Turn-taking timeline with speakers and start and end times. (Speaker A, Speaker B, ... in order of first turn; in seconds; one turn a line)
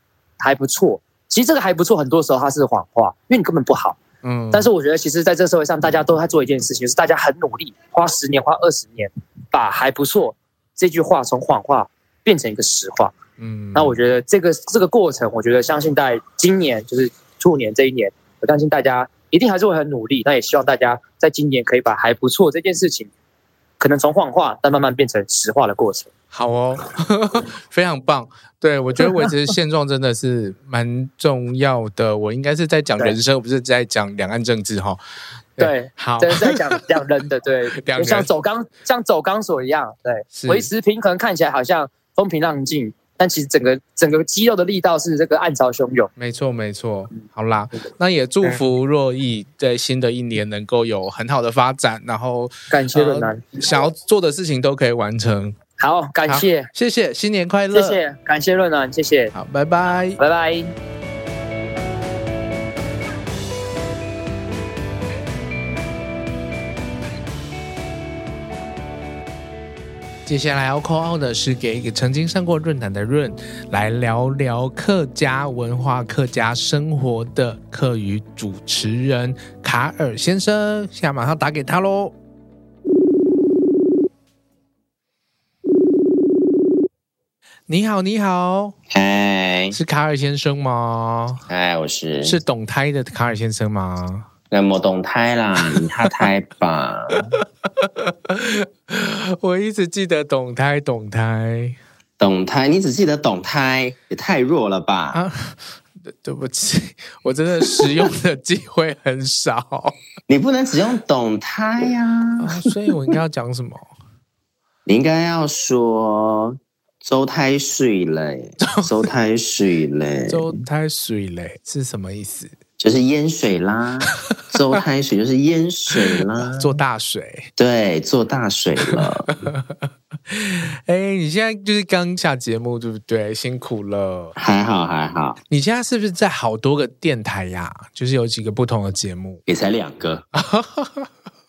Speaker A: 0.4-4.0
Speaker B: 4.2-4.7
Speaker A: 4.5-13.1
Speaker B: 13.4-14.0
Speaker A: 13.8-23.1
Speaker A: 23.8-26.1
Speaker B: 26.3-35.0
Speaker B: 35.6-36.8
Speaker A: 35.6-46.1
Speaker B: 37.8-38.3
Speaker B: 40.3-40.7
Speaker B: 46.2-55.6
Speaker A: 52.7-53.6
Speaker A: 55.8-56.7
Speaker B: 56.3-58.0
Speaker A: 57.7-59.3
Speaker B: 59.3-60.2
Speaker A: 60.2-60.7
Speaker B: 70.3-82.1
Speaker B: 87.7-88.8
Speaker C: 88.9-89.8
Speaker B: 89.7-91.4
Speaker C: 91.5-92.4
Speaker B: 92.2-94.3
Speaker C: 94.5-97.3
Speaker B: 97.1-101.8
Speaker C: 102.2-105.2
Speaker B: 105.1-110.0
Speaker C: 110.3-112.6
Speaker B: 112.4-113.9
Speaker C: 114.9-120.6
Speaker B: 118.6-118.9
Speaker B: 120.3-122.5
Speaker C: 122.8-126.8
Speaker B: 126.4-127.5
Speaker C: 127.6-129.4
Speaker B: 128.9-134.3
Speaker C: 134.4-135.4
Speaker B: 135.5-139.4
Speaker C: 139.5-140.2
Speaker B: 140.3-141.1